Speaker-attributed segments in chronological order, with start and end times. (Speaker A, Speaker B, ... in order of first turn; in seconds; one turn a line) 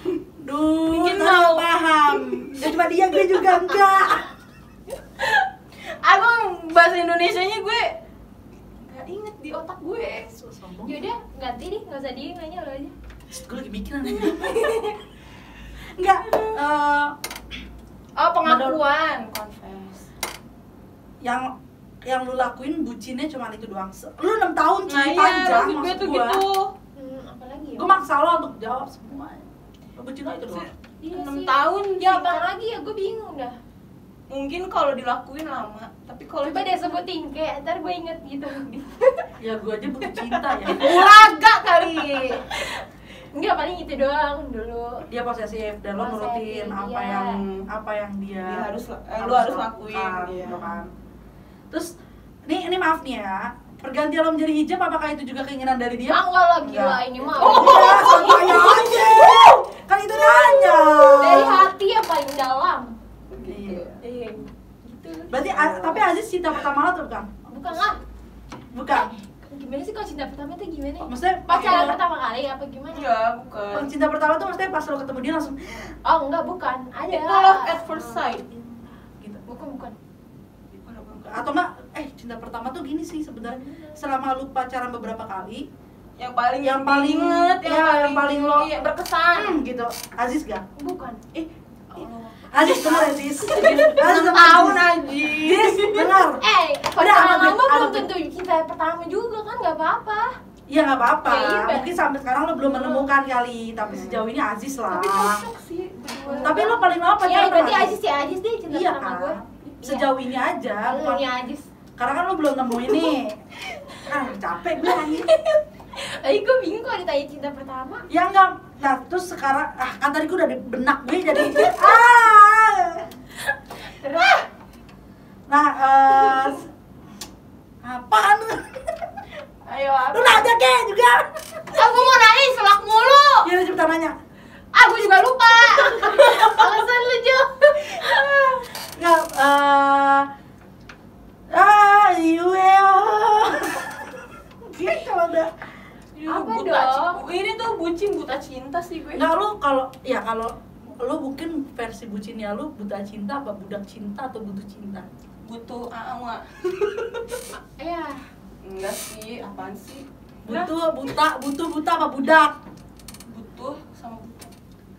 Speaker A: 0.4-4.3
Speaker B: 0.9-2.7
Speaker B: 3.3-3.6
Speaker B: 5.2-8.0
Speaker B: 8.8-10.1
Speaker C: 9.5-10.3
Speaker A: 10.3-11.0
Speaker C: 10.8-12.9
Speaker A: 13.3-14.8
Speaker B: 14.2-14.9
Speaker A: 15.9-17.1
Speaker B: 16.2-16.6
Speaker B: 18.2-20.1
Speaker A: 18.4-18.8
Speaker A: 21.2-21.5
Speaker A: 22.0-26.4
Speaker B: 24.9-26.7
Speaker C: 26.9-27.9
Speaker A: 27.8-29.4
Speaker A: 29.9-30.7
Speaker B: 30.5-32.4
Speaker C: 31.0-33.6
Speaker B: 34.3-36.9
Speaker C: 36.4-39.3
Speaker A: 39.4-41.0
Speaker B: 40.7-42.5
Speaker C: 43.3-45.0
Speaker A: 45.1-50.9
Speaker C: 46.0-47.4
Speaker B: 47.2-47.7
Speaker B: 48.4-50.8
Speaker A: 52.5-61.7
Speaker C: 56.1-58.9
Speaker B: 57.3-59.5
Speaker B: 60.4-61.2
Speaker C: 61.1-62.9
Speaker B: 63.3-64.0
Speaker A: 63.4-63.9
Speaker C: 64.0-65.5
Speaker A: 65.3-67.9
Speaker B: 65.6-66.0
Speaker C: 67.5-68.0
Speaker A: 68.7-69.1
Speaker C: 68.9-73.1
Speaker A: 71.0-72.0
Speaker B: 71.5-71.9
Speaker B: 72.9-73.9
Speaker A: 73.7-75.9
Speaker C: 76.0-78.1
Speaker B: 77.1-78.4
Speaker A: 78.1-79.4
Speaker C: 79.5-80.0
Speaker B: 80.7-81.5
Speaker A: 81.2-85.7
Speaker C: 83.4-84.0
Speaker B: 86.2-89.6
Speaker A: 86.6-88.7
Speaker A: 89.3-90.6
Speaker C: 90.8-91.2
Speaker B: 91.3-96.2
Speaker A: 92.5-96.4
Speaker C: 93.6-93.9
Speaker C: 96.4-100.3
Speaker A: 96.9-98.1
Speaker A: 100.7-105.4
Speaker C: 101.2-101.9
Speaker B: 103.9-104.2
Speaker B: 104.9-106.6
Speaker C: 106.2-110.0
Speaker A: 106.4-107.9
Speaker A: 108.7-111.2
Speaker C: 110.8-111.7
Speaker A: 112.0-113.4
Speaker A: 114.0-115.3
Speaker C: 114.8-118.0
Speaker A: 118.1-123.1
Speaker C: 123.8-124.4
Speaker A: 125.5-126.7
Speaker A: 127.8-129.1
Speaker B: 129.6-130.5
Speaker A: 130.1-131.8
Speaker B: 131.7-133.5
Speaker A: 133.4-134.1
Speaker C: 134.7-138.6
Speaker A: 135.9-136.7
Speaker A: 138.9-140.3
Speaker A: 141.5-145.5
Speaker B: 146.2-149.2
Speaker C: 146.3-147.2
Speaker A: 149.1-155.1
Speaker B: 155.4-157.4
Speaker C: 157.6-158.2
Speaker B: 158.6-160.0
Speaker A: 160.4-162.6
Speaker B: 163.2-164.5